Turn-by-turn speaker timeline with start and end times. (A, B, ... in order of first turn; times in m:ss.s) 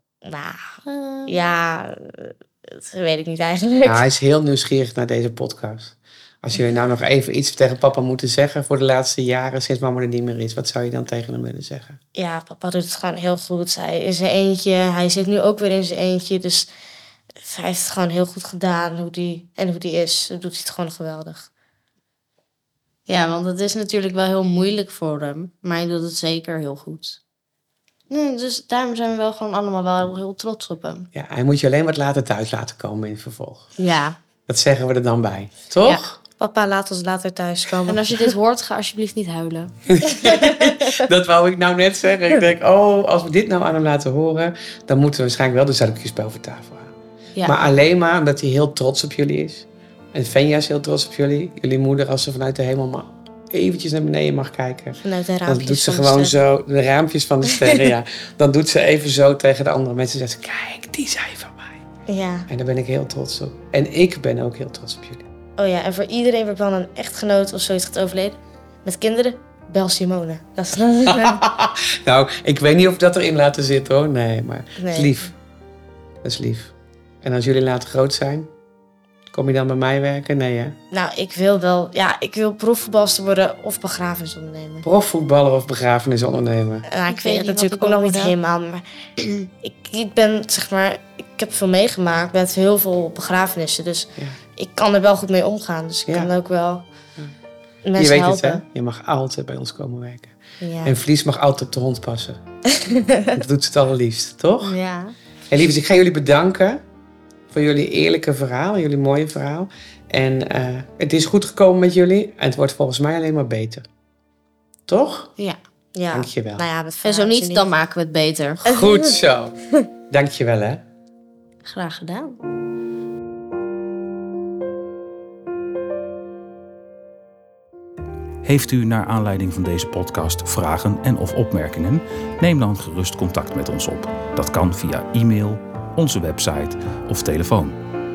0:00.2-0:00.6 A
0:00.9-0:01.3 B
0:01.3-0:04.0 A
0:03.8-0:12.0 C
0:12.2-0:16.7 A
0:17.4-0:21.5 A
0:23.1-0:27.2 B
0:28.1-0:31.1 B
0:31.1-0:33.7 C
0:33.8-0:34.2 B
0:34.5-0:36.2 C
0:36.4-0:38.3 A
0:37.9-0:39.7 B
0:39.9-0:46.9 C
0:40.1-0:40.8 A
0:47.4-1:01.8 C
0:55.0-0:56.4 A
0:57.5-0:57.9 A
1:02.1-1:02.5 A
1:02.5-1:05.3 C
1:05.6-1:11.4 A
1:11.1-1:15.3 C
1:14.8-1:15.3 A
1:16.2-1:18.5 C
1:19.3-1:20.8 C
1:20.9-1:24.9 A
1:24.8-1:26.9 C
1:26.9-1:28.8 A
1:27.1-1:28.3 B
1:29.6-1:36.9 A
1:37.8-1:38.6 A
1:38.0-1:42.4 C
1:40.6-1:40.9 A
1:42.7-1:43.4 A
1:43.4-1:44.8 C
1:44.6-1:45.2 B
1:45.5-1:46.8 C
1:47.5-1:53.8 C
1:54.9-1:55.3 C
1:55.9-1:57.7 A
1:56.1-1:56.6 C
1:57.0-1:58.7 B
1:58.6-1:59.6 C
1:58.7-1:59.2 A
2:00.1-2:00.8 C
2:01.6-2:02.4 B
2:08.4-2:17.8 D